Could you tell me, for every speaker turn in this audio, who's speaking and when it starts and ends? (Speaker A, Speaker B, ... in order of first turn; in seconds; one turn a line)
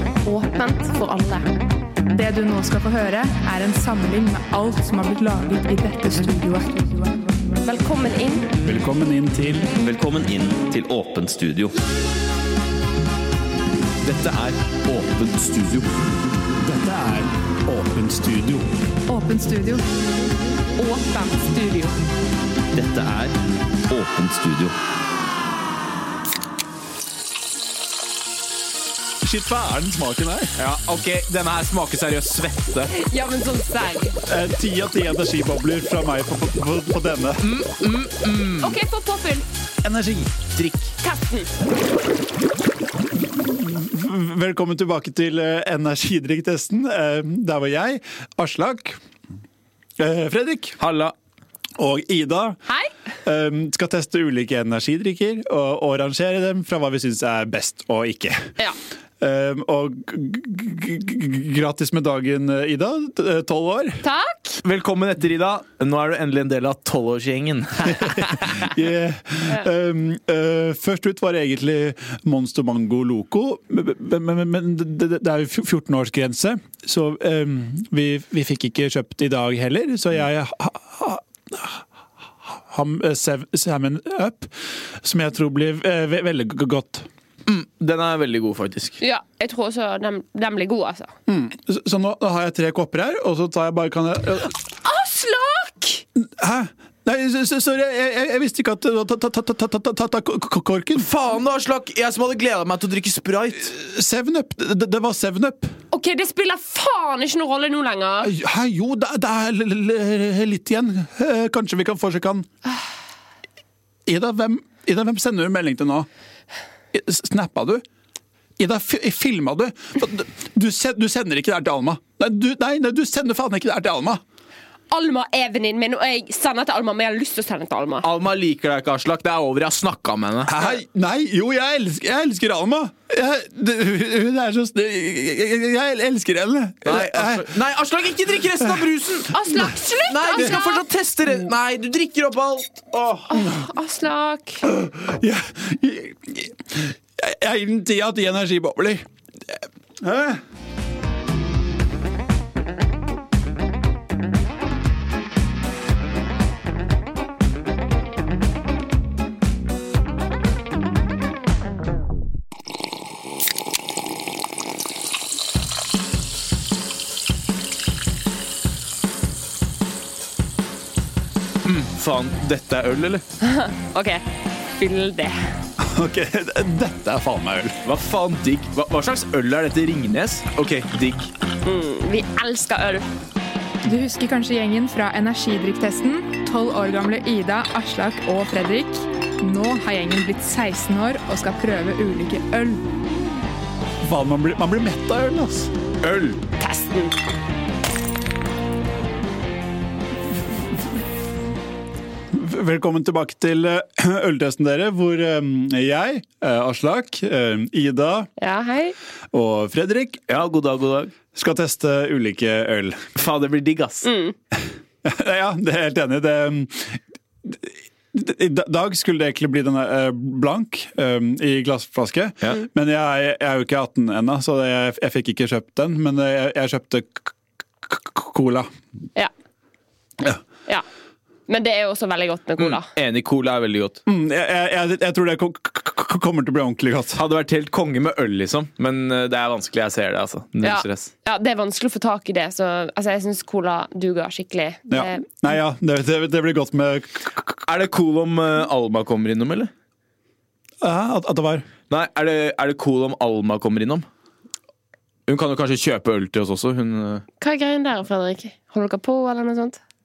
Speaker A: 0.2-1.5
Speaker B: 2.1-7.6
Speaker A: 7.6-8.5
Speaker C: 8.6-9.7
Speaker D: 9.8-11.7
Speaker E: 14.0-15.9
Speaker C: 16.6-18.7
Speaker B: 19.1-19.8
Speaker A: 20.8-21.9
Speaker D: 22.7-23.3
Speaker D: 23.9-24.7
Speaker C: 29.2-30.5
Speaker E: 30.6-32.9
Speaker A: 32.9-34.2
Speaker C: 34.2-37.5
Speaker E: 37.4-38.8
Speaker A: 38.6-39.5
Speaker C: 39.8-40.4
Speaker E: 40.6-40.9
Speaker A: 41.0-41.5
Speaker C: 43.2-49.0
Speaker C: 50.0-50.8
Speaker E: 50.8-51.1
Speaker C: 51.8-52.6
Speaker C: 53.2-58.5
Speaker C: 59.2-64.0
Speaker A: 64.0-64.6
Speaker E: 64.6-68.4
Speaker C: 68.0-81.8
Speaker C: 82.4-87.1
Speaker E: 87.5-89.0
Speaker A: 89.0-91.1
Speaker C: 91.3-94.5
Speaker A: 94.8-96.0
Speaker C: 96.2-101.1
Speaker E: 100.9-103.7
Speaker C: 103.6-105.7
Speaker A: 105.9-108.3
Speaker C: 108.2-112.5
Speaker C: 114.0-116.1
Speaker C: 116.9-117.8
Speaker C: 118.6-124.2
Speaker A: 124.9-128.1
Speaker E: 128.0-130.8
Speaker C: 130.4-137.6
Speaker E: 136.8-143.3
Speaker C: 138.5-139.7
Speaker A: 139.3-140.8
Speaker C: 140.3-140.6
Speaker A: 143.3-144.6
Speaker C: 143.4-143.7
Speaker C: 144.6-149.0
Speaker C: 150.0-150.4
Speaker E: 171.6-173.2
Speaker A: 173.4-174.2
Speaker A: 174.8-175.4
Speaker C: 175.8-177.8
Speaker E: 177.8-181.3
Speaker A: 181.6-183.1
Speaker B: 183.8-192.8
Speaker C: 194.0-195.7
Speaker E: 196.0-196.4
Speaker A: 196.6-197.1
Speaker C: 202.3-208.3
Speaker A: 208.4-208.9
Speaker C: 209.3-210.2
Speaker E: 210.3-211.1
Speaker C: 211.3-213.1
Speaker E: 213.2-214.1
Speaker A: 214.0-214.3
Speaker C: 215.0-228.7
Speaker A: 231.5-232.9
Speaker E: 232.6-234.0
Speaker C: 234.1-237.2
Speaker E: 237.1-241.1
Speaker A: 240.6-245.3
Speaker C: 244.9-247.6
Speaker E: 247.6-249.7
Speaker C: 250.8-251.7
Speaker E: 251.9-254.0
Speaker E: 255.3-257.2
Speaker A: 257.4-259.8